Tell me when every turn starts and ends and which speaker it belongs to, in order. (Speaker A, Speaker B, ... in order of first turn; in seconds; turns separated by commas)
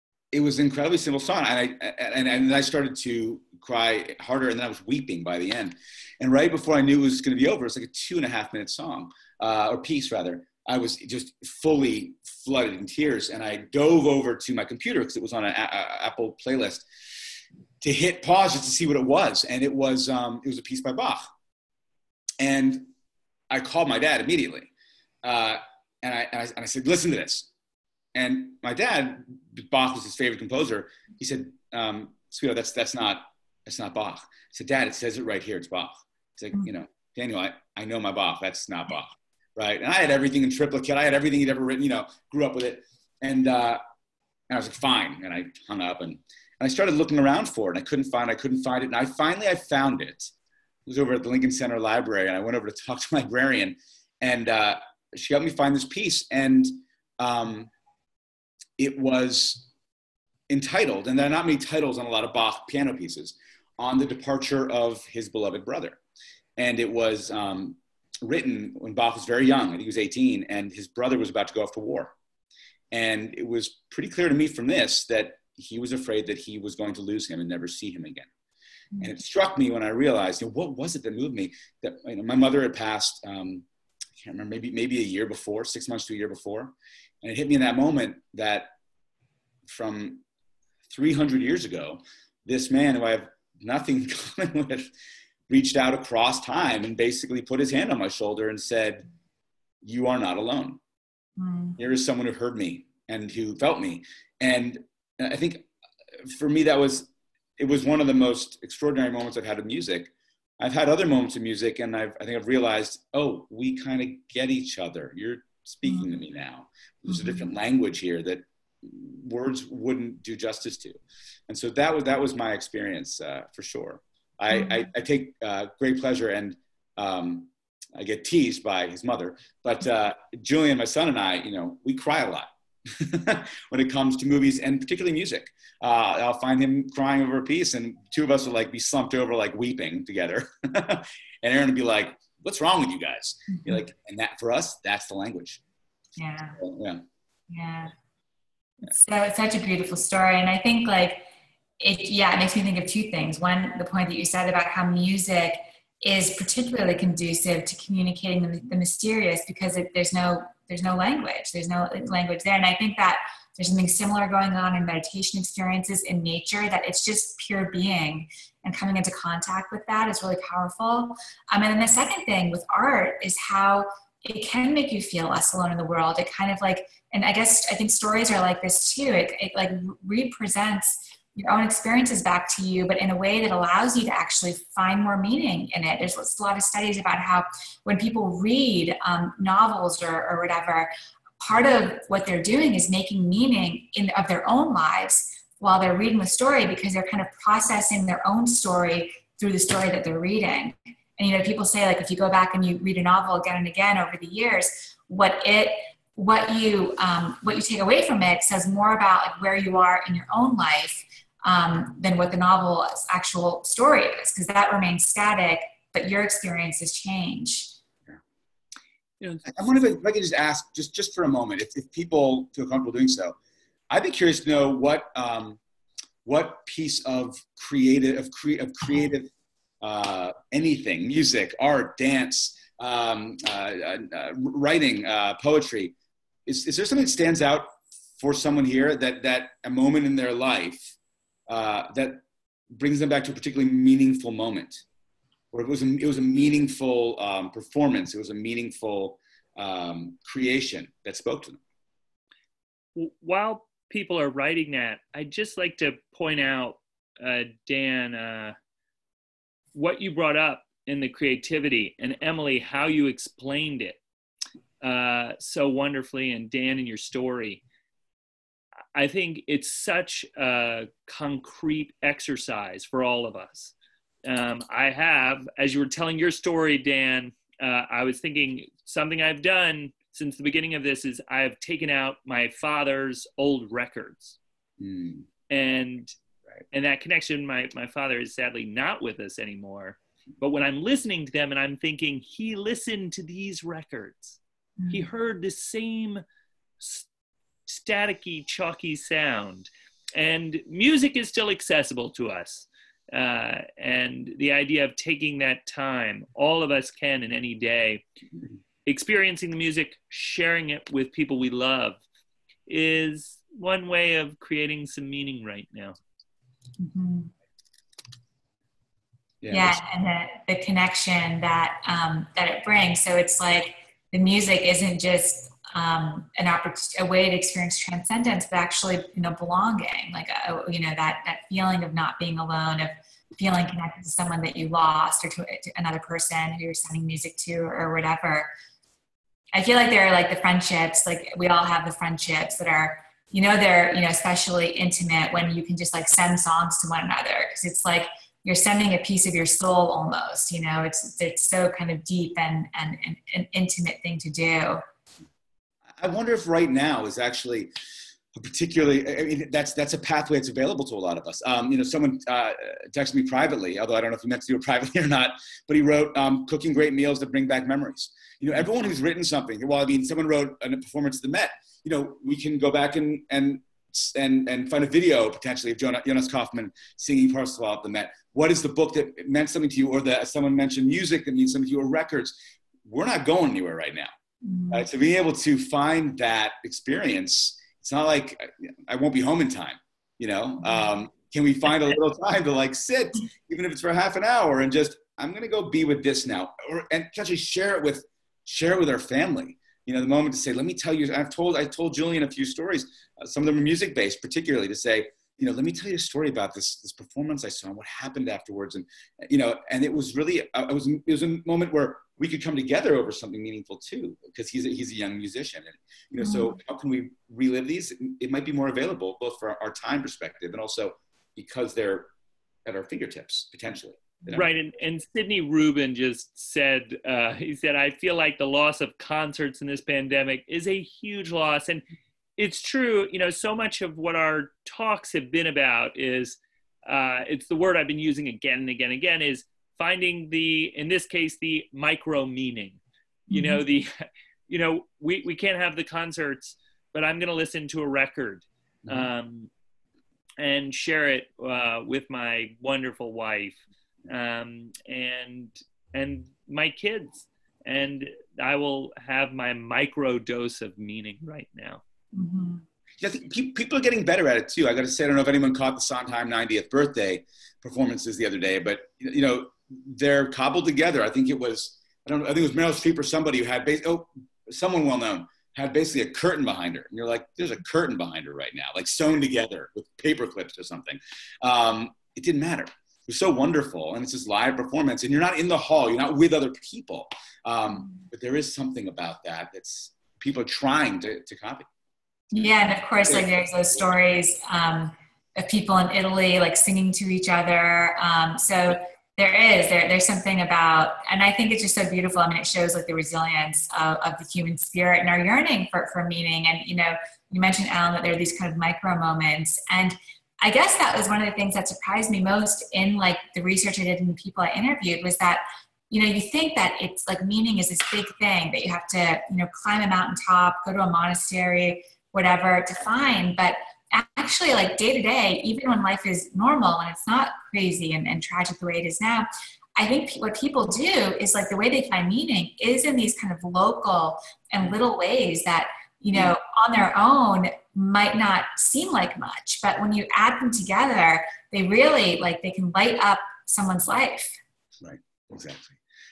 Speaker A: 0.3-16.9, Speaker A: 17.8-21.3, Speaker A: 22.4-22.9, Speaker A: 23.5-24.7, Speaker A: 25.2-27.5, Speaker A: 28.1-43.8, Speaker A: 44.5-50.3, Speaker A: 50.9-57.7, Speaker A: 58.8-59.6, Speaker A: 60.5-66.0, Speaker A: 66.6-72.1, Speaker A: 72.9-78.3, Speaker A: 79.0-83.6, Speaker A: 84.2-88.7, Speaker A: 89.7-90.2, Speaker A: 90.9-94.9, Speaker A: 95.5-99.0, Speaker A: 99.8-100.8, Speaker B: 101.4-101.8, Speaker A: 101.8-105.7, Speaker A: 106.2-145.6, Speaker B: 117.1-117.5, Speaker B: 124.5-124.9, Speaker B: 146.2-146.6, Speaker A: 146.6-147.0, Speaker B: 147.5-147.9, Speaker B: 148.8-151.2, Speaker B: 151.8-217.7, Speaker A: 219.4-223.3, Speaker A: 223.9-225.6, Speaker A: 226.2-229.3, Speaker A: 229.8-235.9, Speaker A: 236.4-240.9, Speaker A: 241.5-244.8, Speaker A: 245.5-251.6, Speaker C: 252.9-258.6, Speaker C: 259.7-264.0, Speaker C: 264.8-267.6, Speaker C: 268.9-273.7, Speaker C: 274.2-284.4, Speaker A: 284.8-285.2, Speaker C: 285.5-286.1, Speaker C: 286.7-296.2, Speaker B: 294.8-295.1, Speaker C: 296.8-297.1, Speaker C: 297.7-308.0, Speaker C: 308.8-312.0, Speaker C: 312.7-315.9, Speaker B: 316.8-317.3, Speaker A: 319.4-319.8, Speaker B: 319.5-338.5, Speaker B: 339.5-354.8, Speaker A: 356.0-357.7, Speaker A: 358.3-384.1, Speaker B: 384.4-384.8, Speaker A: 384.7-422.1, Speaker B: 416.2-416.6, Speaker A: 422.6-424.5, Speaker C: 424.3-431.9, Speaker C: 432.4-449.5, Speaker B: 443.3-443.6, Speaker C: 450.4-461.8, Speaker B: 462.1-462.6, Speaker A: 463.0-491.7, Speaker B: 492.3-544.4, Speaker A: 544.8-545.8